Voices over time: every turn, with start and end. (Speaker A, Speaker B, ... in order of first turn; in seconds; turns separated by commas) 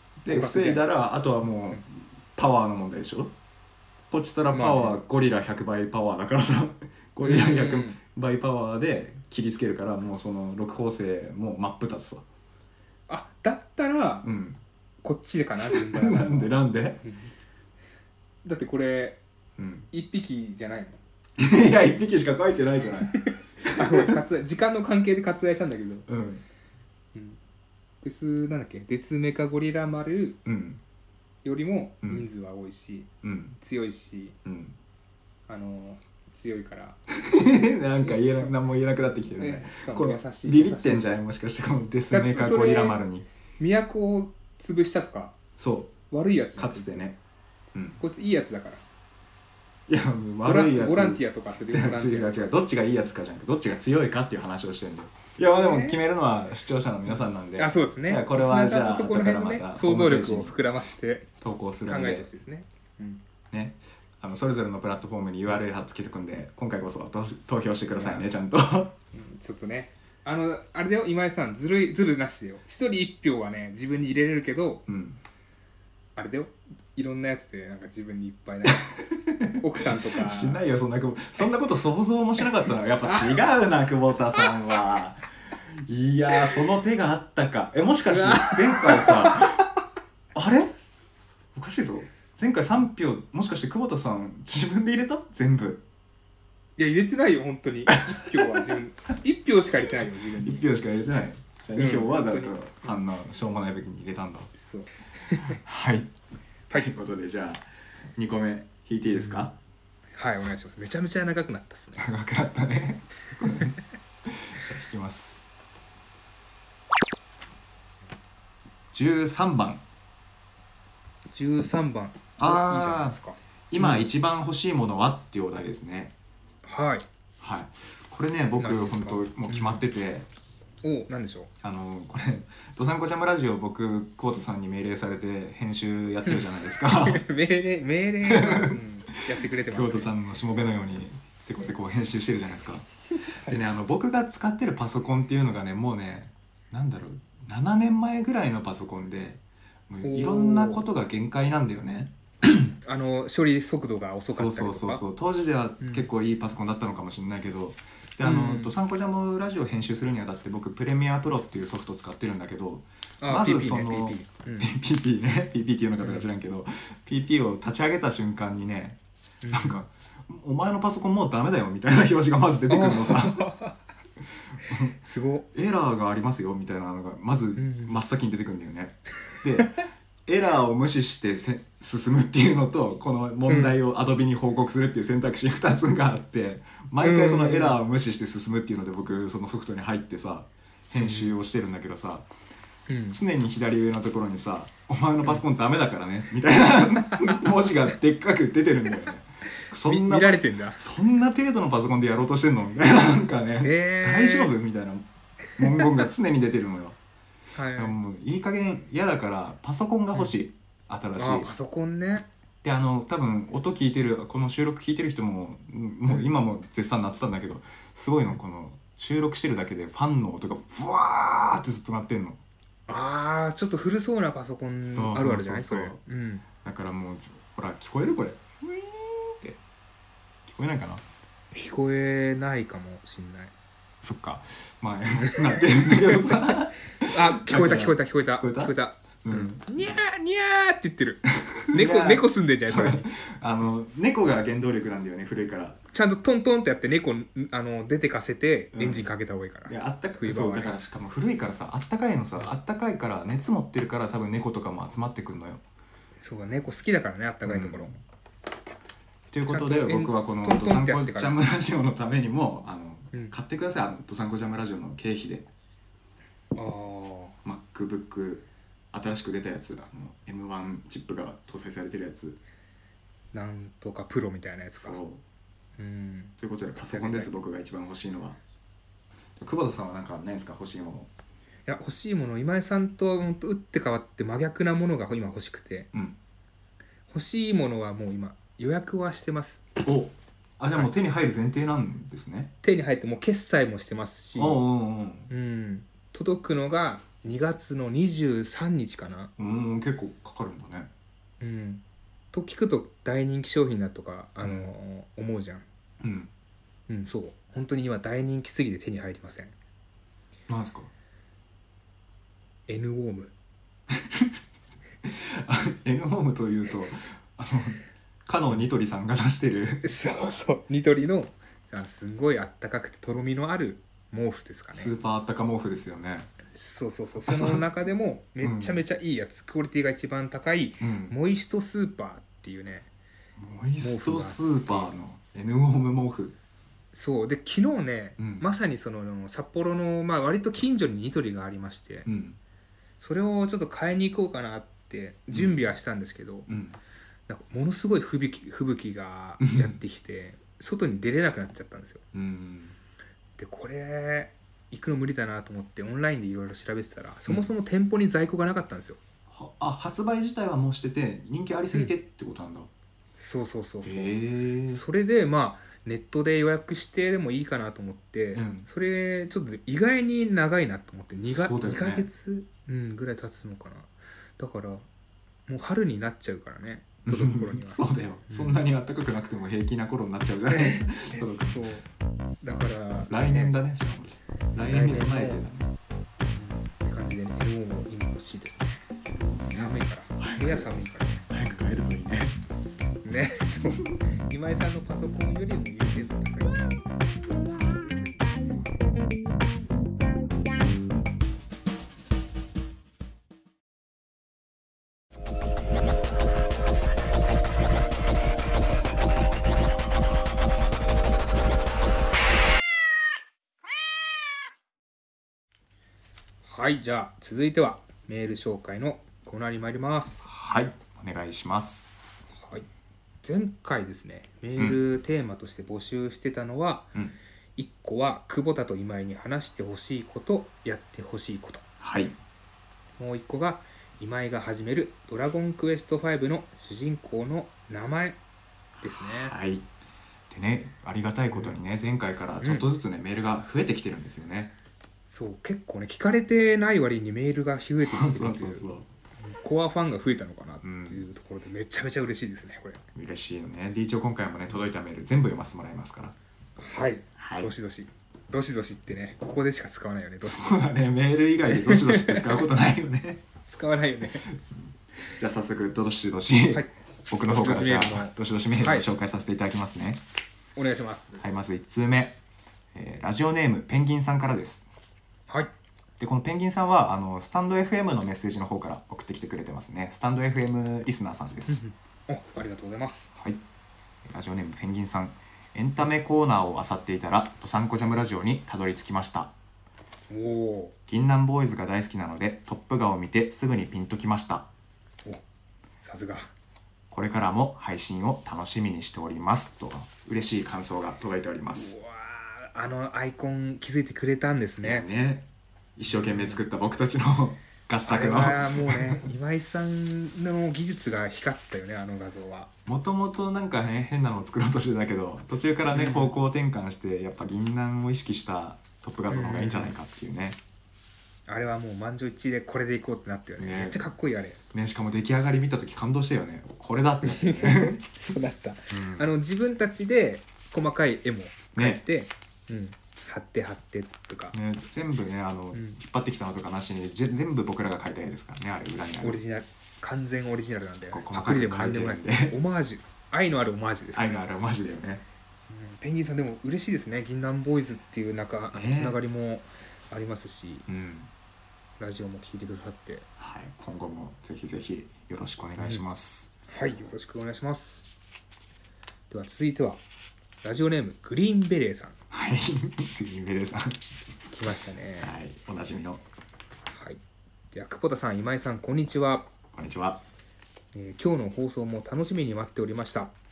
Speaker A: 0.2-3.3, Speaker B: 0.3-0.8, Speaker A: 4.1-12.2, Speaker B: 4.5-5.0, Speaker B: 7.2-8.0, Speaker B: 13.1-14.3, Speaker A: 14.2-14.6, Speaker B: 15.0-17.3, Speaker A: 15.7-17.0, Speaker B: 18.4-19.2, Speaker A: 19.6-19.9, Speaker B: 19.9-21.0, Speaker A: 21.4-24.2, Speaker B: 23.3-26.1, Speaker A: 26.1-26.4, Speaker B: 28.0-30.4, Speaker A: 30.4-30.8, Speaker B: 31.4-34.4, Speaker A: 33.2-33.6, Speaker A: 34.4-34.8, Speaker B: 35.5-37.0, Speaker A: 37.2-43.2, Speaker B: 37.9-38.5, Speaker B: 39.4-41.1, Speaker B: 42.1-43.0, Speaker B: 43.6-45.4, Speaker A: 45.6-46.0, Speaker B: 46.1-47.1, Speaker A: 46.5-47.2, Speaker A: 47.7-48.0, Speaker B: 48.0-48.8, Speaker A: 49.9-60.5, Speaker B: 50.4-52.5, Speaker B: 55.5-56.0, Speaker B: 57.6-61.3, Speaker A: 61.4-62.3, Speaker B: 61.8-63.2, Speaker A: 63.5-68.9, Speaker B: 67.9-68.3, Speaker B: 69.1-74.8, Speaker A: 74.9-75.2, Speaker B: 76.2-78.9, Speaker A: 79.1-89.6, Speaker B: 79.5-80.6, Speaker B: 88.1-89.4, Speaker A: 90.3-90.7, Speaker A: 91.5-95.8, Speaker B: 96.8-100.6, Speaker A: 98.3-98.7, Speaker A: 100.4-104.5, Speaker B: 101.8-102.6, Speaker B: 104.5-105.6, Speaker A: 105.4-106.1, Speaker A: 106.7-109.6, Speaker B: 110.2-112.1, Speaker A: 112.0-115.5, Speaker A: 118.9-119.8, Speaker B: 121.3-124.0, Speaker A: 122.4-123.2, Speaker A: 123.7-126.1, Speaker B: 126.6-127.0, Speaker A: 127.4-130.3, Speaker B: 128.6-129.8, Speaker B: 130.8-131.5, Speaker A: 131.6-137.2, Speaker B: 136.2-140.1, Speaker A: 138.2-138.7, Speaker A: 139.7-142.9, Speaker A: 143.4-152.7, Speaker B: 150.0-150.8, Speaker B: 152.8-155.0, Speaker A: 154.3-169.0, Speaker B: 155.8-156.1, Speaker B: 158.2-158.7, Speaker B: 163.2-164.7, Speaker B: 166.0-166.2, Speaker B: 169.4-169.8, Speaker A: 169.5-173.5, Speaker B: 172.7-173.8, Speaker A: 174.6-174.9, Speaker B: 174.9-175.4, Speaker A: 175.5-192.3, Speaker B: 177.6-177.9, Speaker B: 183.5-183.8, Speaker B: 187.0-187.8, Speaker B: 191.0-191.4, Speaker B: 192.9-193.2, Speaker A: 193.1-207.0, Speaker B: 199.7-200.8, Speaker B: 203.6-204.5, Speaker B: 207.5-207.9, Speaker A: 207.8-211.5, Speaker B: 211.2-212.3, Speaker A: 212.6-222.4, Speaker B: 222.9-226.4, Speaker A: 224.8-226.0, Speaker A: 226.6-229.6, Speaker A: 230.4-231.0, Speaker B: 231.5-233.5, Speaker A: 234.0-238.7, Speaker B: 235.2-243.1, Speaker A: 239.2-239.6, Speaker A: 241.7-245.8, Speaker B: 245.9-250.8, Speaker A: 248.7-249.1, Speaker A: 249.7-255.6, Speaker B: 256.2-258.0, Speaker A: 257.4-258.0, Speaker A: 259.3-265.5, Speaker B: 259.4-261.4, Speaker B: 266.5-267.4, Speaker A: 267.4-272.4, Speaker B: 273.3-275.0, Speaker A: 274.8-275.2, Speaker B: 275.8-277.3, Speaker A: 276.4-278.4, Speaker A: 279.4-281.1, Speaker B: 281.7-285.9, Speaker B: 287.1-289.6, Speaker A: 289.8-292.5, Speaker B: 292.6-294.6, Speaker A: 294.3-295.3, Speaker B: 295.3-299.3, Speaker A: 299.4-300.9, Speaker B: 301.4-305.6, Speaker A: 304.4-304.7, Speaker A: 306.0-306.3, Speaker B: 306.9-309.5, Speaker A: 310.5-310.9, Speaker B: 312.7-313.3, Speaker A: 313.9-314.3, Speaker A: 315.0-319.9, Speaker B: 319.8-324.9, Speaker A: 324.7-326.3, Speaker B: 326.5-332.9, Speaker A: 327.2-327.6, Speaker A: 328.4-328.8, Speaker A: 330.8-331.1, Speaker A: 333.4-336.4, Speaker B: 333.8-334.9, Speaker B: 336.9-342.1, Speaker A: 338.2-338.4, Speaker A: 342.0-342.4, Speaker B: 343.0-346.5, Speaker A: 346.5-346.8, Speaker B: 347.3-352.0, Speaker A: 349.4-349.8, Speaker A: 352.1-352.8, Speaker B: 353.4-359.0, Speaker A: 359.3-362.7, Speaker B: 363.2-374.9, Speaker A: 363.8-364.8, Speaker A: 368.3-368.7, Speaker A: 371.3-372.1, Speaker B: 375.5-378.6, Speaker A: 377.1-381.6, Speaker B: 380.5-381.9, Speaker B: 382.4-383.5, Speaker A: 383.1-385.7, Speaker B: 384.6-385.4, Speaker B: 386.3-388.9, Speaker A: 389.0-390.7, Speaker B: 389.5-391.3, Speaker A: 391.3-392.4, Speaker B: 393.0-396.8, Speaker B: 416.4-420.3, Speaker A: 420.2-421.9, Speaker B: 422.3-422.7, Speaker B: 423.2-426.9, Speaker B: 427.6-431.6, Speaker A: 431.8-432.1, Speaker B: 433.0-438.2, Speaker A: 438.8-439.7, Speaker B: 438.8-439.3, Speaker A: 440.3-444.5, Speaker B: 442.4-442.7, Speaker B: 445.1-448.7, Speaker A: 447.8-448.9, Speaker B: 449.2-452.8, Speaker A: 450.6-451.0, Speaker A: 452.9-456.1, Speaker B: 456.6-460.7, Speaker A: 457.2-457.5, Speaker A: 460.2-463.2, Speaker B: 461.5-462.4, Speaker B: 463.5-464.3, Speaker A: 464.3-470.0, Speaker B: 467.3-468.9, Speaker B: 470.6-471.2, Speaker A: 471.2-472.2, Speaker A: 472.7-474.7, Speaker A: 476.0-481.6, Speaker B: 481.5-483.1, Speaker A: 484.1-489.3, Speaker B: 490.1-490.7, Speaker A: 490.9-494.5, Speaker B: 495.8-496.3, Speaker A: 496.9-501.8, Speaker B: 501.5-504.9, Speaker A: 504.6-509.0, Speaker B: 505.9-506.4, Speaker B: 507.9-512.5, Speaker A: 512.6-520.4, Speaker B: 515.7-516.1, Speaker B: 519.1-519.7, Speaker B: 521.3-524.4, Speaker A: 523.4-523.8, Speaker A: 524.5-527.8, Speaker B: 527.0-534.4, Speaker A: 528.7-529.1, Speaker A: 531.5-531.8, Speaker A: 534.3-539.2, Speaker B: 539.0-544.2, Speaker A: 540.9-542.4, Speaker A: 543.9-545.0, Speaker B: 545.5-550.7, Speaker A: 548.5-549.0, Speaker A: 550.7-551.1, Speaker B: 551.8-553.1, Speaker A: 553.2-556.3, Speaker B: 556.5-557.9, Speaker B: 559.1-559.8, Speaker B: 560.4-562.0, Speaker A: 562.1-563.8, Speaker B: 564.3-565.1, Speaker A: 565.0-566.0, Speaker B: 566.7-567.0, Speaker B: 567.5-569.3, Speaker A: 569.5-570.0, Speaker B: 570.7-573.1